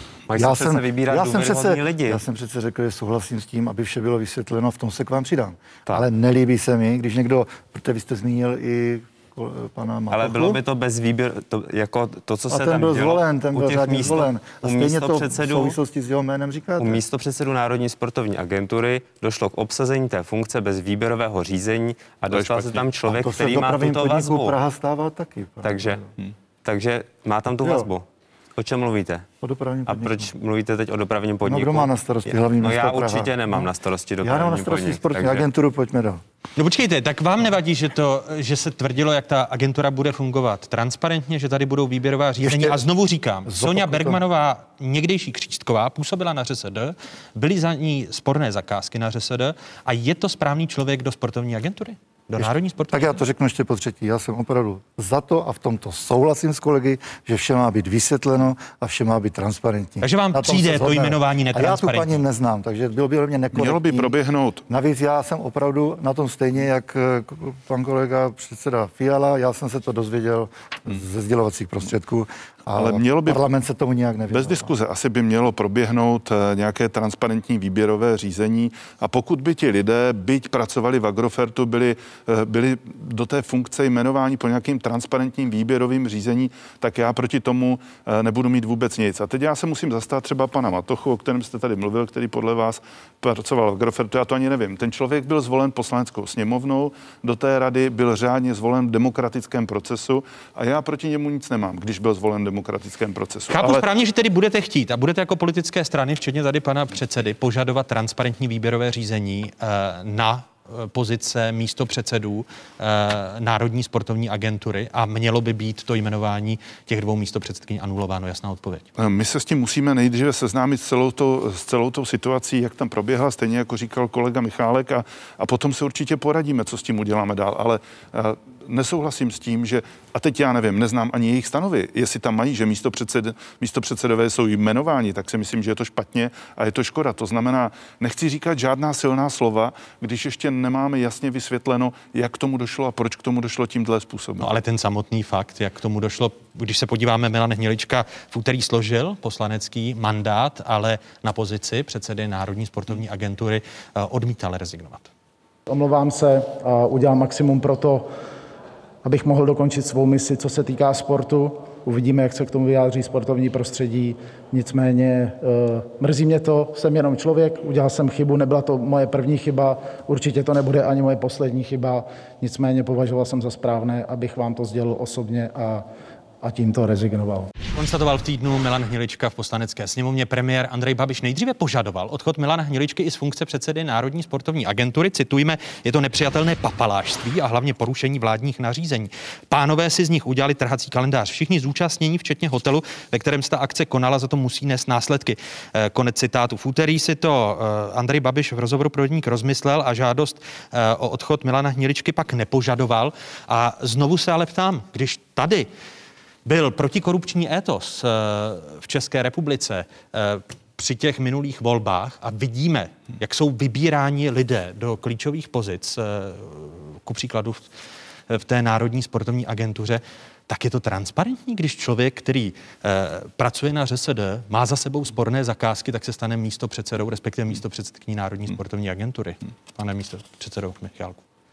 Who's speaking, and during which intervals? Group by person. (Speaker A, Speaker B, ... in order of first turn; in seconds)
Speaker A: 0.3-2.2, 10.1-15.8, 16.8-24.6, 25.6-26.0, 26.6-28.1, 28.6-29.3, 29.9-35.5
Speaker B: 0.3-10.6, 12.5-17.0, 23.1-26.1, 27.6-27.9, 29.4-30.3, 31.4-33.7, 34.2-36.2, 42.4-42.8, 43.5-44.2, 52.4-64.2, 64.7-74.7
Speaker C: 22.3-22.9, 63.5-64.6, 72.8-73.4, 74.3-103.9, 119.0-144.5
Speaker D: 36.6-53.2, 60.0-62.2, 103.5-118.9, 144.4-155.1, 177.7-205.7, 206.4-217.7, 218.3-231.2
Speaker E: 155.7-158.1, 159.0-175.8, 176.4-177.5